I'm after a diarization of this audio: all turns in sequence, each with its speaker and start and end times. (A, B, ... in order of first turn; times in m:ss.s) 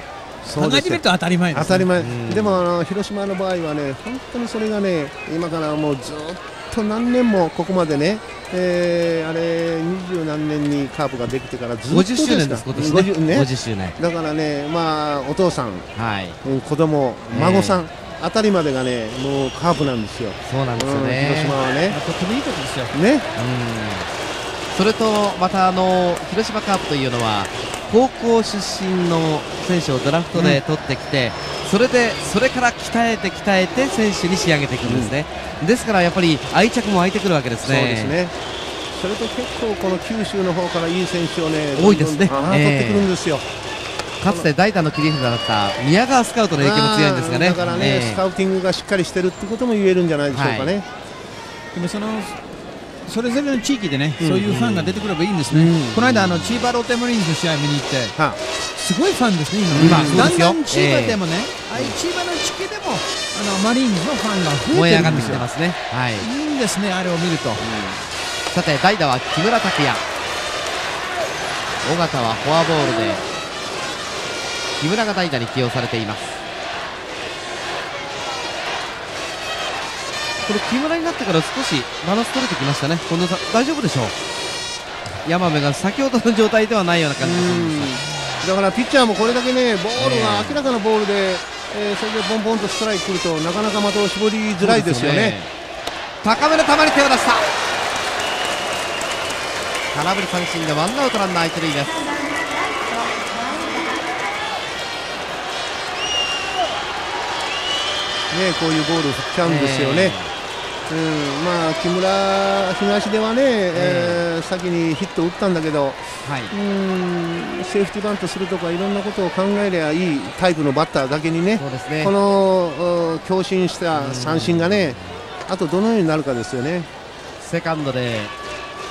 0:00.4-0:15.8 A
0:00.4-0:01.9 B
0:02.0-0:02.6 C
0:11.9-0:14.0 C
0:15.9-0:16.4 C
0:16.4-0:22.0 A
0:17.3-0:17.8 C
0:20.4-0:21.6 C
0:21.8-0:22.9 B
0:22.9-0:23.3 A
0:23.4-0:24.1 C
0:24.7-0:38.2 C
0:30.3-0:30.6 A
0:34.8-0:35.1 A
0:37.6-0:38.3 A
0:38.9-0:43.4 A
0:41.7-0:43.1 C
0:44.2-0:48.2 C
0:46.6-0:50.8 A
0:50.3-0:50.8 C
0:51.7-0:52.4 B
0:53.0-0:58.1 B
0:54.2-0:54.5 A
0:54.5-0:55.0 C
0:55.5-0:56.1 A
0:56.1-0:56.6 C
0:58.7-1:05.4 B
0:59.7-1:00.3 A
0:59.8-1:01.2 C
1:04.7-1:06.3 C
1:06.2-1:07.6 B
1:07.6-1:08.1 A
1:08.5-1:10.0 C
1:11.8-1:13.2 C
1:14.8-1:16.4 C
1:20.4-1:24.1 C
1:25.2-1:28.0 C
1:27.2-1:35.4 A
1:30.0-1:30.6 C
1:34.6-1:35.5 C
1:36.2-1:37.5 C
1:39.9-1:42.1 C
1:48.3-1:50.2 A
1:49.4-1:50.3 C
1:50.9-2:06.9 A
1:53.7-1:54.2 C
1:56.2-1:56.5 C
2:01.6-2:02.1 C
2:03.9-2:05.2 C
2:07.4-2:08.3 C